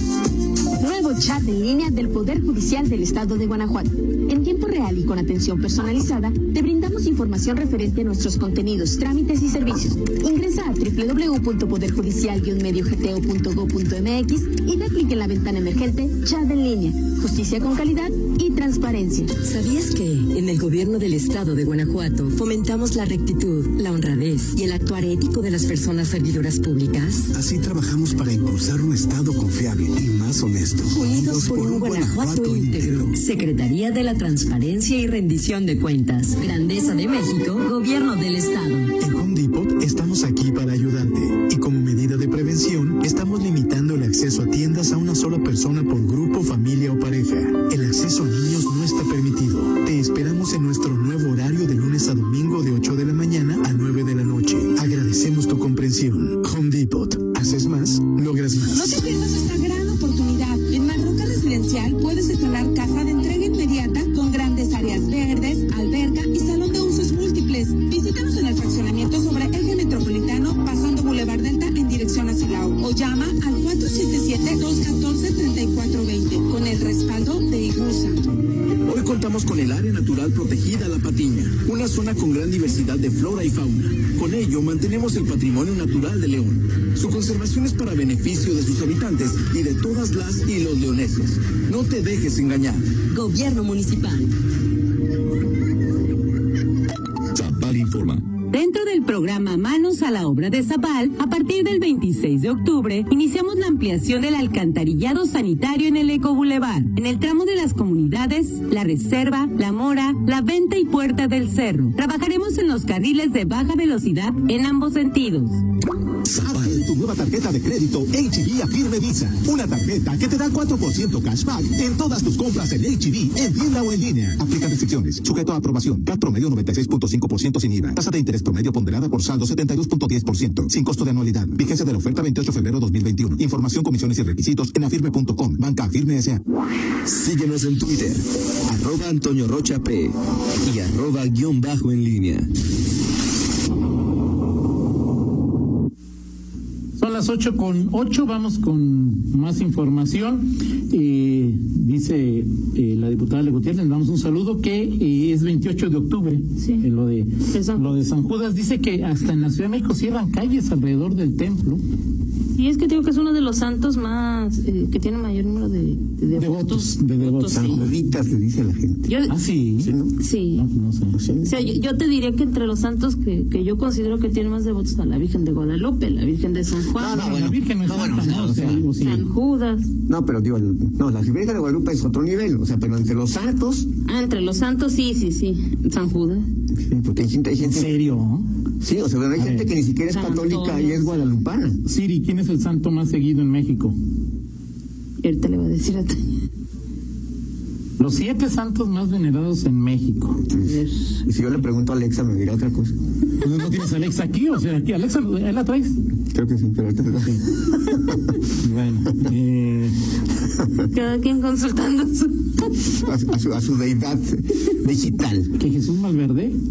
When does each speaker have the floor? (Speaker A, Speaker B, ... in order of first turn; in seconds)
Speaker A: 0.8-19.3
Speaker B: 19.4-27.3, 30.8-38.9, 93.1-94.3
Speaker C: 27.3-33.1, 39.0-59.0
Speaker D: 58.6-78.2
Speaker E: 78.8-92.9, 97.4-98.2
Speaker F: 98.5-115.6
Speaker G: 116.3-136.4
Speaker H: 137.1-142.5
Speaker I: 147.0-161.8, 166.3-167.9, 169.3-169.9, 170.5-171.2, 177.0-179.2, 187.6-188.5, 189.4-189.7, 191.8-193.9, 198.0-200.4, 203.4-206.0, 208.5-210.0, 215.6-216.5
Speaker J: 156.6-156.8, 157.5-157.8, 162.5-167.9, 169.1-169.3, 170.2-170.6, 171.4-177.2, 179.0-179.9, 184.1-186.4, 190.1-191.2, 195.2-196.2, 200.6-201.2, 210.9-212.7
Speaker K: 167.5-169.2, 169.8-170.1, 171.1-171.6, 176.9-178.9, 180.1-183.9, 186.8-188.0, 188.8-191.8, 200.5-202.9, 206.3-208.2, 212.9-215.5